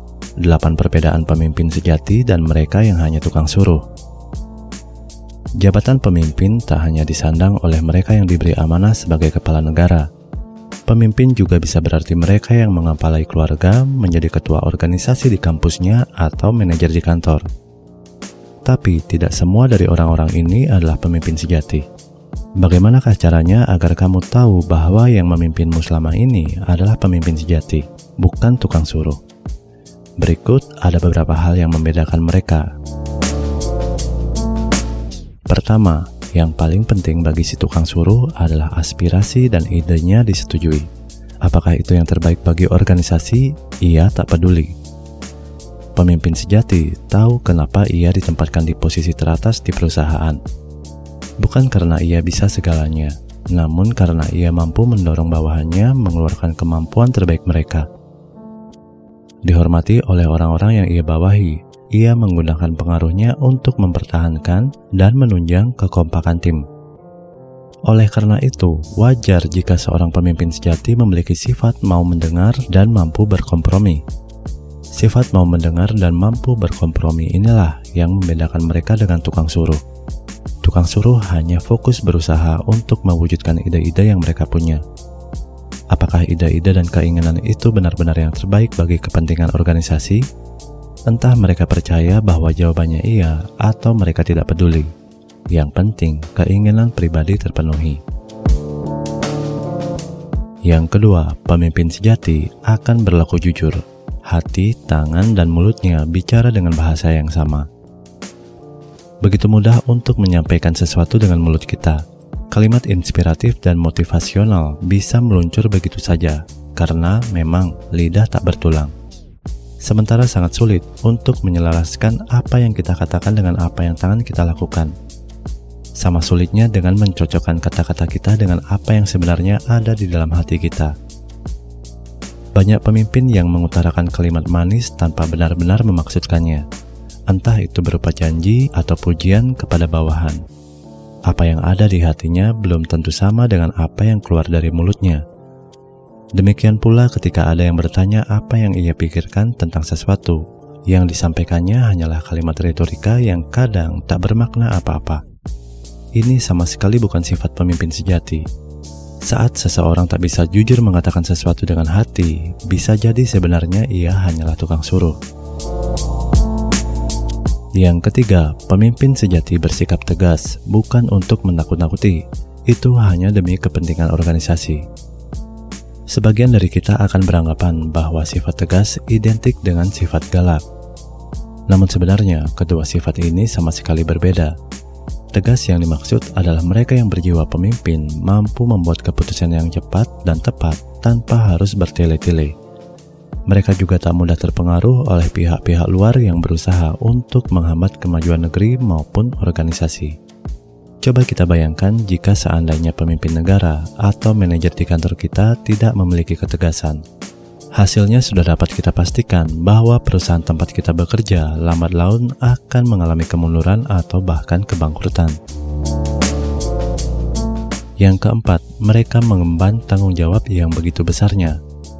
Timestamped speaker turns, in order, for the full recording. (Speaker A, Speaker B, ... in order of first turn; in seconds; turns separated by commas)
Speaker A: 0.4-3.9, Speaker A: 5.6-10.1, Speaker A: 10.9-17.4, Speaker A: 18.6-21.9, Speaker A: 22.6-29.2, Speaker A: 30.2-32.7, Speaker A: 35.5-40.9, Speaker A: 41.4-44.7, Speaker A: 46.0-50.4, Speaker A: 51.4-57.9, Speaker A: 59.4-66.7, Speaker A: 67.9-74.0, Speaker A: 74.9-79.8, Speaker A: 80.6-84.8, Speaker A: 85.9-90.3, Speaker A: 91.1-94.9, Speaker A: 95.5-98.0, Speaker A: 100.6-107.7, Speaker A: 109.2-118.9, Speaker A: 119.8-124.9, Speaker A: 126.0-130.9, Speaker A: 132.6-136.6, Speaker A: 137.3-140.4, Speaker A: 141.3-145.2, Speaker A: 146.3-155.2, Speaker A: 156.2-158.4, Speaker A: 159.2-165.2, Speaker A: 167.8-174.8, Speaker A: 176.1-180.6, Speaker A: 181.7-184.6, Speaker A: 185.3-192.5, Speaker A: 193.5-200.2, Speaker A: 201.0-207.0, Speaker A: 207.8-215.4, Speaker A: 218.0-221.6